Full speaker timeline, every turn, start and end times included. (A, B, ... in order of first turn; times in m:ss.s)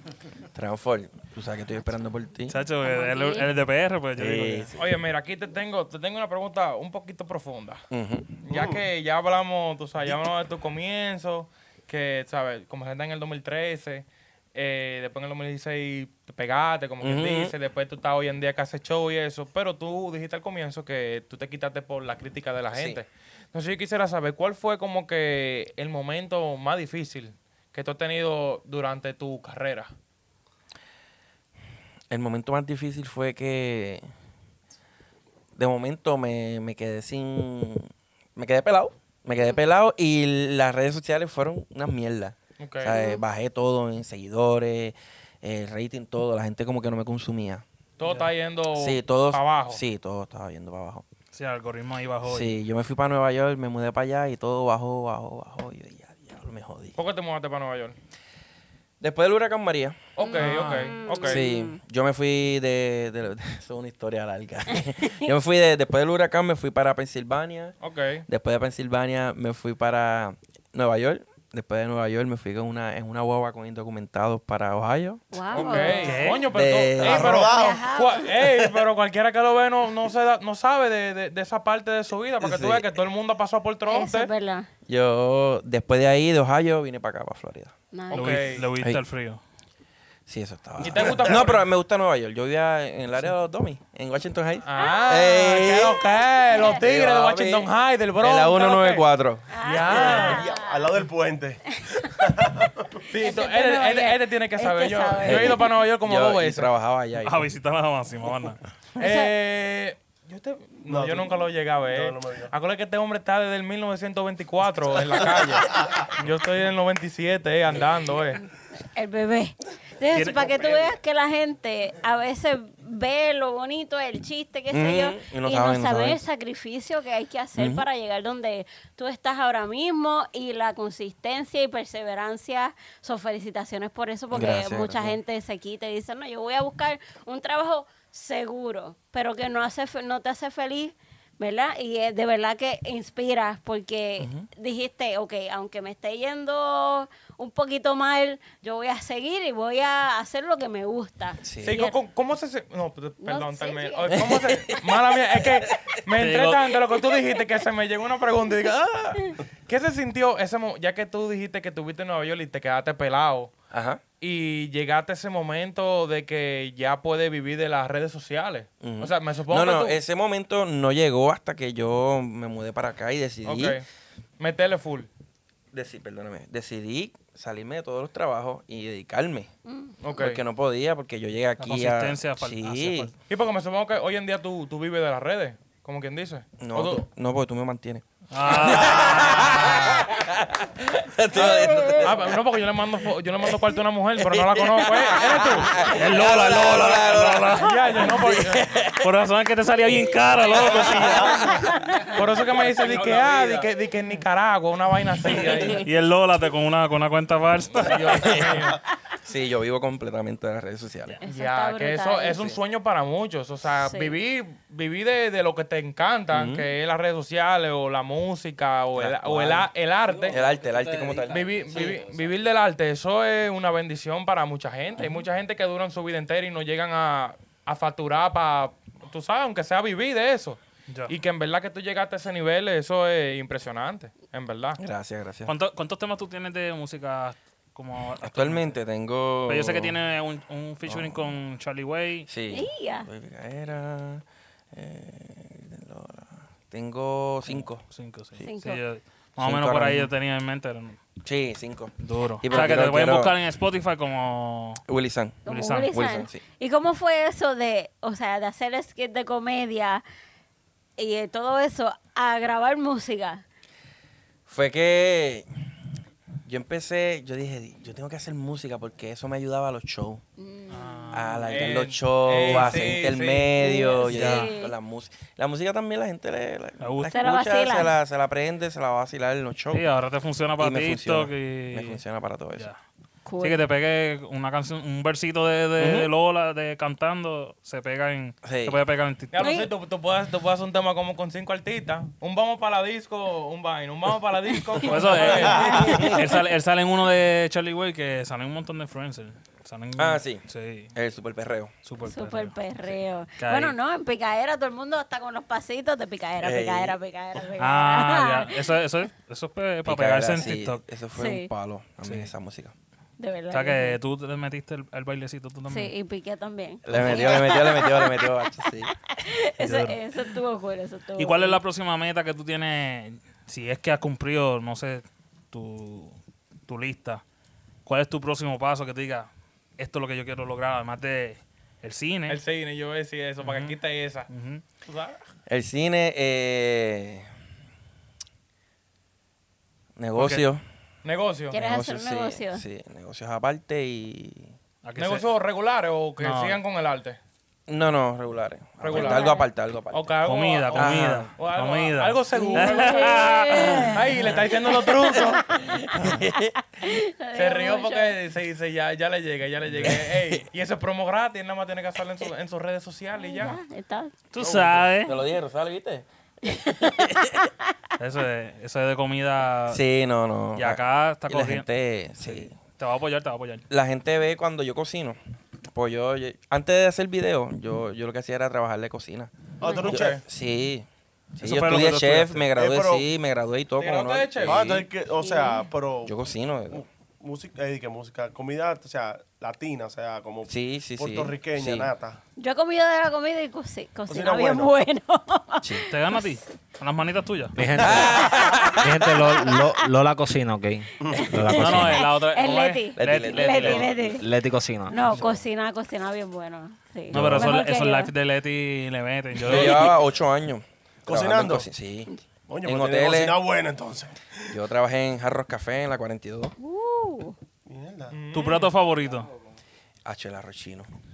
0:00.6-0:02.6 A
0:02.5-0:04.7 B
0:02.8-0:03.5 C
0:04.2-0:05.0 A
0:04.8-0:07.8 D
0:07.9-0:08.4 A
0:08.4-0:29.9 D
0:08.5-0:08.8 E
0:17.0-0:17.5 A
0:22.7-0:23.0 A
0:32.1-0:34.0 A
0:35.6-0:47.6 A
0:42.6-0:43.0 D
0:43.0-0:43.2 C
0:48.0-0:49.8 D
0:48.0-0:48.3 B
0:48.8-0:51.0 A
0:51.3-0:52.6 B
0:52.2-0:57.0 A
0:57.0-0:58.0 D
0:59.0-1:00.0 A
1:00.2-1:01.4 D
1:00.2-1:01.8 C
1:00.4-1:01.0 B
1:01.2-1:07.8 A
1:04.7-1:05.3 C
1:07.8-1:08.2 D
1:08.3-1:15.8 A
1:15.3-1:16.4 C
1:15.5-1:24.3 D
1:16.0-1:16.5 B
1:16.5-1:17.4 A
1:17.0-1:18.0 E
1:17.2-1:18.4 C
1:22.4-1:22.9 A
1:23.9-1:24.7 C
1:24.9-1:27.7 A
1:27.9-1:28.6 C
1:28.1-1:28.7 D
1:28.1-1:29.4 B
1:30.3-1:36.0 A
1:30.8-1:31.7 D
1:31.0-1:31.4 E
1:34.6-1:39.1 D
1:34.8-1:35.2 C
1:36.4-1:36.8 C
1:36.7-1:37.7 A
1:38.2-1:39.5 A
1:39.5-1:40.9 C
1:39.6-1:40.5 D
1:39.9-1:43.0 E
1:43.1-1:46.7 D
1:43.1-1:45.7 C
1:45.2-1:47.5 A
1:47.2-1:48.6 B
1:49.0-1:49.3 C
1:49.0-1:58.4 D
1:50.9-1:52.5 E
1:58.8-2:32.0 C
2:00.1-2:00.5 B
2:04.7-2:06.2 A
2:07.6-2:07.8 A
2:14.3-2:15.2 A
2:24.2-2:24.5 A
2:31.4-2:31.8 A
2:31.6-2:43.5 D
2:33.2-2:34.4 C
2:34.1-2:34.8 A
2:36.2-2:36.7 B
2:43.7-2:44.0 A
2:44.2-2:50.0 D
2:48.8-2:53.8 A
2:53.4-2:53.8 D
2:54.4-2:55.1 D
2:55.7-2:59.5 A
2:59.7-3:00.0 C
3:00.0-3:00.4 D
3:00.2-3:03.1 A
3:01.6-3:03.1 B
3:03.3-3:07.0 D
3:06.6-3:12.4 A
3:08.3-3:10.1 B
3:12.0-3:15.8 D
3:14.2-3:19.1 A
3:15.8-3:18.2 B
3:17.5-3:18.7 D
3:19.0-3:21.5 B
3:20.6-3:21.6 A
3:20.9-3:21.3 D
3:21.4-3:22.0 C
3:22.1-3:23.7 F
3:22.1-3:25.8 D
3:25.3-3:25.8 C
3:25.8-3:28.4 B
3:27.7-3:28.8 D
3:28.2-3:31.2 A
3:31.2-3:32.6 C
3:31.2-3:40.4 D
3:33.8-3:34.2 C
3:36.3-3:36.7 A
3:39.0-3:39.7 A
3:40.0-3:42.4 F
3:40.3-3:42.0 A
3:41.3-3:54.8 D
3:50.9-3:51.1 B
3:54.8-3:55.5 A
3:55.5-3:58.8 B
3:58.2-4:00.0 A
3:59.5-4:02.3 B
4:00.9-4:01.3 A
4:02.3-4:07.8 A
4:02.5-4:03.1 C
4:07.5-4:11.0 B
4:08.4-4:08.8 C
4:09.4-4:10.1 A
4:11.2-4:13.4 A
4:12.0-4:14.8 B
4:14.8-4:16.4 A
4:15.4-4:20.0 C
4:15.5-4:15.9 B
4:21.0-4:23.4 C
4:24.5-4:25.5 A
4:26.5-4:30.2 A
4:30.4-4:31.2 C
4:30.7-4:31.5 B
4:31.1-4:39.9 A
4:31.5-4:33.8 D
4:32.4-4:33.0 B
4:33.8-4:34.8 C
4:34.0-4:34.5 B
4:36.8-4:37.2 B
4:37.1-4:37.9 C
4:39.7-4:42.0 B
4:40.6-4:42.7 A
4:43.3-4:43.6 C
4:43.4-4:49.4 B
4:45.8-4:46.1 A
4:48.4-4:48.8 A
4:49.3-4:56.1 D
4:49.4-4:49.7 C
4:54.7-4:56.3 C
4:54.8-5:00.9 B
4:55.6-4:56.2 A
5:00.0-5:01.7 A
5:01.8-5:03.8 B
5:02.0-5:08.5 C
5:06.4-5:07.0 A
5:07.6-5:10.8 B
5:09.8-5:12.7 A
5:11.2-5:11.5 C
5:12.0-5:12.3 B
5:13.2-5:14.0 C
5:13.5-5:15.9 B
5:15.7-5:18.4 C
5:16.8-5:18.9 A
5:19.0-5:21.6 C
5:19.6-5:20.0 B
5:21.2-5:27.2 B
5:27.9-5:32.4 B
5:32.3-5:34.3 D
5:33.4-5:33.8 B
5:34.3-5:34.6 B
5:34.8-5:35.2 D
5:35.5-5:37.3 A
5:40.0-5:40.6 A
5:40.2-5:40.4 D
5:41.0-5:41.6 D
5:41.5-5:42.6 C
5:41.5-5:44.5 A
5:44.8-5:45.2 B
5:45.0-5:47.2 D
5:46.2-5:46.6 B
5:47.7-5:50.1 A
5:48.8-5:55.5 D
5:48.9-5:49.5 C
5:50.2-5:54.0 B
5:50.7-5:51.3 A
5:52.3-5:55.9 C
5:55.7-5:56.6 A
5:56.8-5:58.1 C
5:57.4-6:03.6 D
5:59.8-6:00.4 A
6:03.2-6:04.2 C
6:04.3-6:05.2 B
6:04.4-6:04.8 E
6:05.0-6:06.1 A
6:06.4-6:07.5 C
6:06.8-6:07.4 A
6:08.0-6:09.8 B
6:09.7-6:12.6 A
6:10.6-6:11.7 B
6:12.2-6:13.6 B
6:13.7-6:15.2 A
6:15.7-6:19.3 A
6:19.6-6:20.1 E
6:19.6-6:20.0 C
6:19.8-6:20.2 D
6:19.9-6:24.9 A
6:21.4-6:22.5 B
6:22.6-6:23.1 E
6:23.8-6:24.7 D
6:24.4-6:26.1 E
6:25.2-6:25.7 C
6:26.0-6:26.8 A
6:26.7-6:32.2 E
6:30.5-6:31.9 A
6:32.4-6:36.4 C
6:34.1-6:34.7 E
6:35.6-6:35.9 A
6:35.9-6:37.6 B
6:37.6-6:42.1 F
6:37.8-6:39.1 A
6:38.2-6:39.7 C
6:41.0-6:41.4 E
6:41.1-6:44.3 C
6:41.6-6:44.1 B
6:43.0-6:44.2 A
6:44.2-6:45.0 F
6:44.9-6:48.1 C
6:47.1-6:47.5 A
6:47.1-6:50.0 B
6:49.4-6:52.1 A
6:51.1-6:51.7 E
6:52.5-6:54.2 E
6:52.6-6:53.4 A
6:54.5-6:56.6 A
6:56.6-6:57.4 C
6:57.7-6:58.2 E
6:58.1-6:58.7 D
6:58.3-6:59.3 B
6:59.0-6:59.6 F
7:00.0-7:00.9 A